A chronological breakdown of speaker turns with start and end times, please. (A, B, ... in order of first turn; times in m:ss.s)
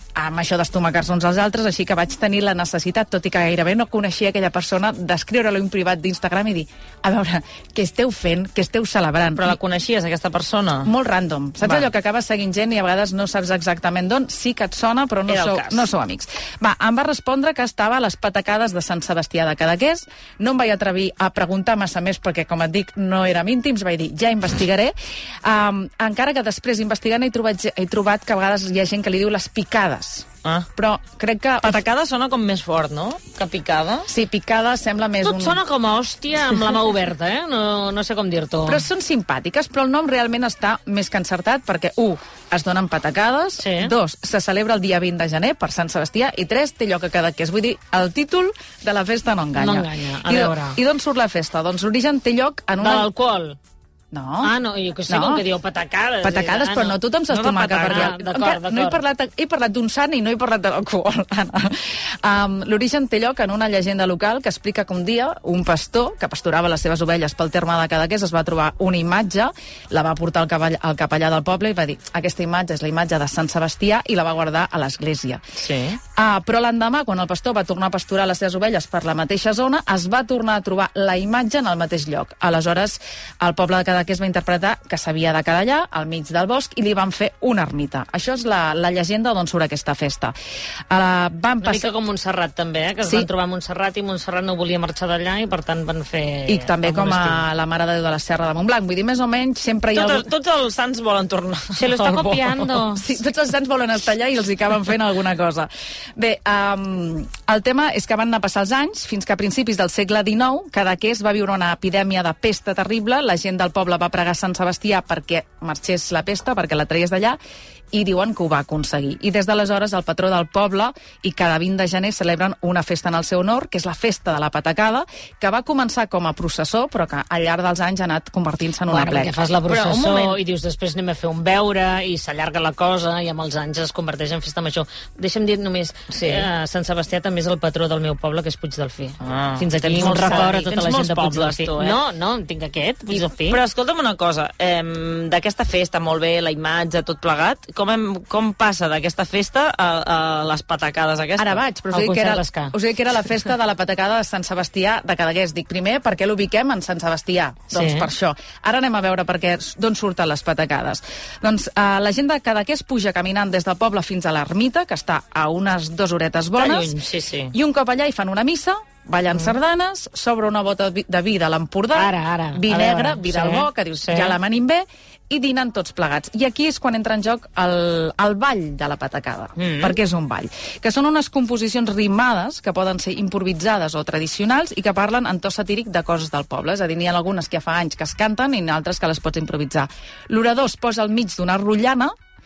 0:00.2-0:09.6 A
0:09.4-0:10.9 B
0:10.8-0:31.8 A
0:11.6-0:11.9 B
0:15.3-0:15.9 B
0:31.6-0:34.1 B
0:34.1-0:35.6 A
0:35.2-0:38.9 C
0:38.7-0:53.1 A
0:43.6-0:43.9 C
0:49.6-0:50.8 C
0:52.8-0:53.6 C
0:54.1-0:54.5 A
0:54.4-0:57.0 C
0:55.1-0:55.5 A
0:56.2-1:15.4 A
0:57.3-0:58.2 B
0:57.8-0:59.0 C
1:15.6-1:16.0 B
1:16.0-1:30.3 A
1:30.9-1:31.9 A
1:31.6-1:37.4 C
1:33.0-1:33.3 A
1:36.5-1:40.3 A
1:39.9-1:42.8 B
1:41.8-1:43.0 C
1:42.8-1:57.4 A
1:57.9-2:09.3 A
2:08.9-2:23.6 C
2:09.7-2:10.4 B
2:16.1-2:16.5 B
2:19.2-2:22.0 B
2:20.1-2:20.4 A
2:23.1-2:31.6 B
2:31.4-2:47.0 A
2:31.9-2:32.7 C
2:37.7-2:38.1 C
2:46.6-2:47.5 B
2:47.5-3:12.1 A
2:51.9-2:54.4 C
2:59.6-3:00.0 B